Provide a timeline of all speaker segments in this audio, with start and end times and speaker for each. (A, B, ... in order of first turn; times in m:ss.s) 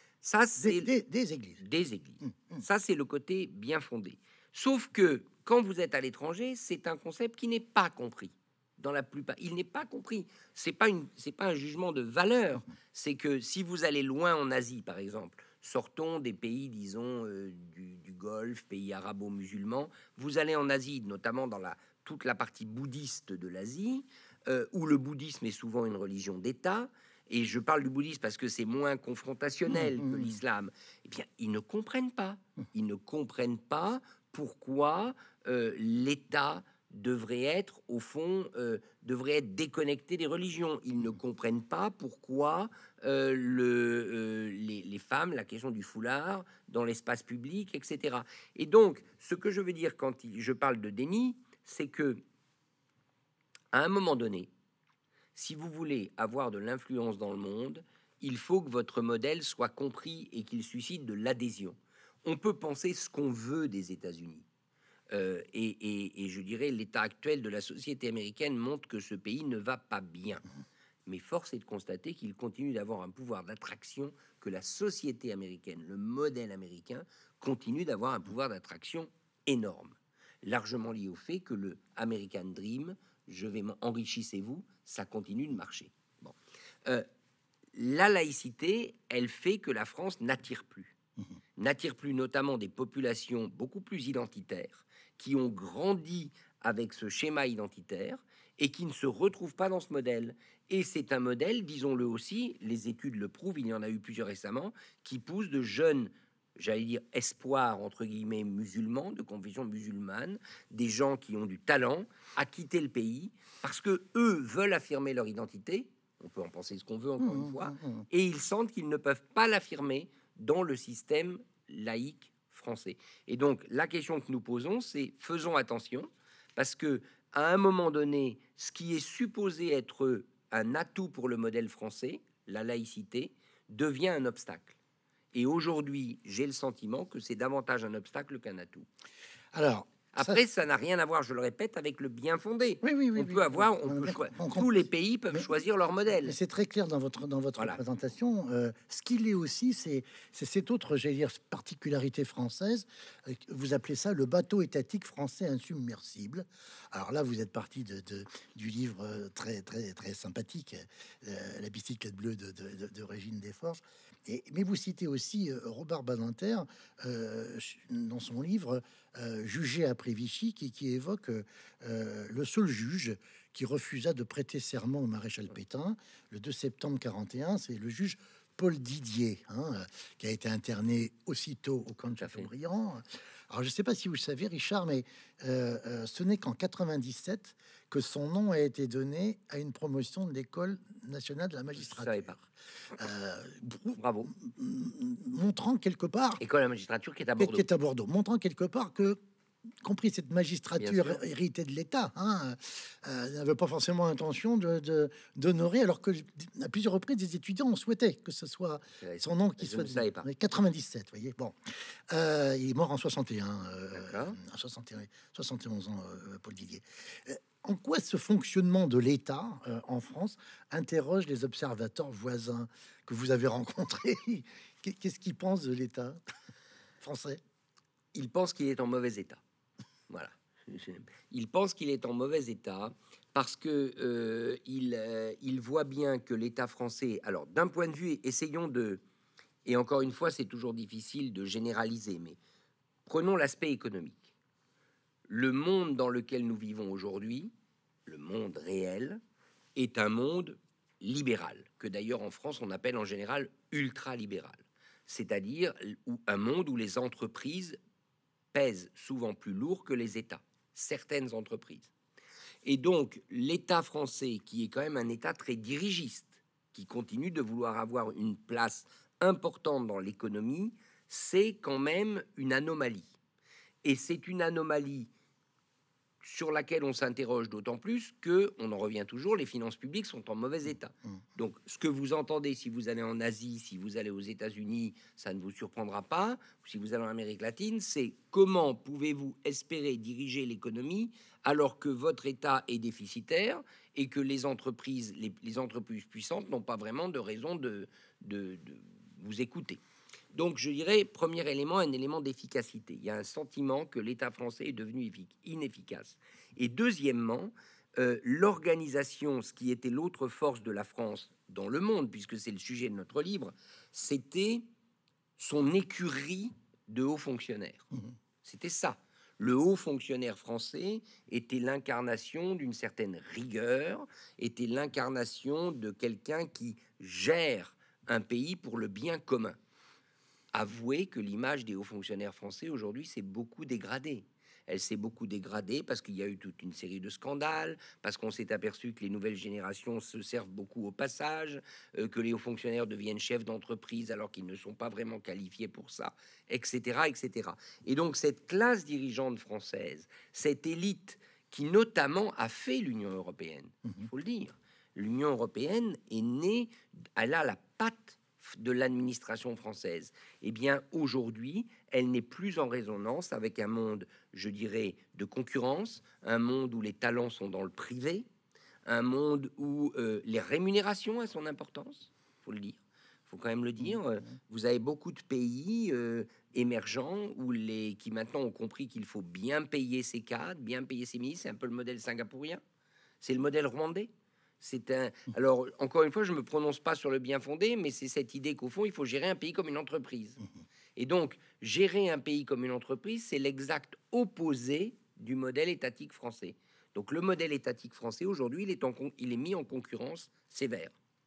0:00.2-0:00.9 A
0:00.6-0:01.6 B
0:01.6-0:52.2 A
0:02.3-0:02.6 B
0:30.0-0:30.4 B
0:53.7-0:54.5 A
0:55.3-1:04.4 A
1:05.1-1:10.4 A
1:11.0-1:26.3 A
1:27.7-1:31.0 A
1:31.6-2:14.8 A
1:57.2-1:58.0 B
2:15.3-2:18.9 A
2:19.5-2:20.4 B
2:20.1-2:26.4 A
2:22.8-2:25.4 B
2:26.2-3:12.3 B
3:02.2-3:02.5 A
3:11.7-3:12.4 A
3:13.0-3:16.4 B
3:14.0-3:14.3 A
3:16.4-3:17.6 A
3:17.4-3:19.2 B
3:19.8-3:31.6 B
3:20.8-3:21.2 A
3:29.0-3:30.3 A
3:32.1-3:46.2 B
3:33.9-3:34.4 A
3:47.0-3:47.4 B
3:48.1-3:49.4 A
3:50.1-3:59.0 A
3:59.6-4:02.4 A
4:03.0-4:04.3 A
4:05.3-4:07.5 A
4:08.0-4:09.2 A
4:09.8-4:17.8 A
4:18.5-4:21.9 A
4:22.6-4:33.1 A
4:33.8-4:35.1 A
4:36.2-4:59.8 A
5:00.3-5:14.6 A
5:15.4-5:17.9 A
5:18.4-5:29.6 A
5:30.5-6:08.2 A
6:08.8-6:22.6 A
6:23.2-6:24.1 A
6:24.6-6:30.4 A
6:31.0-6:40.9 A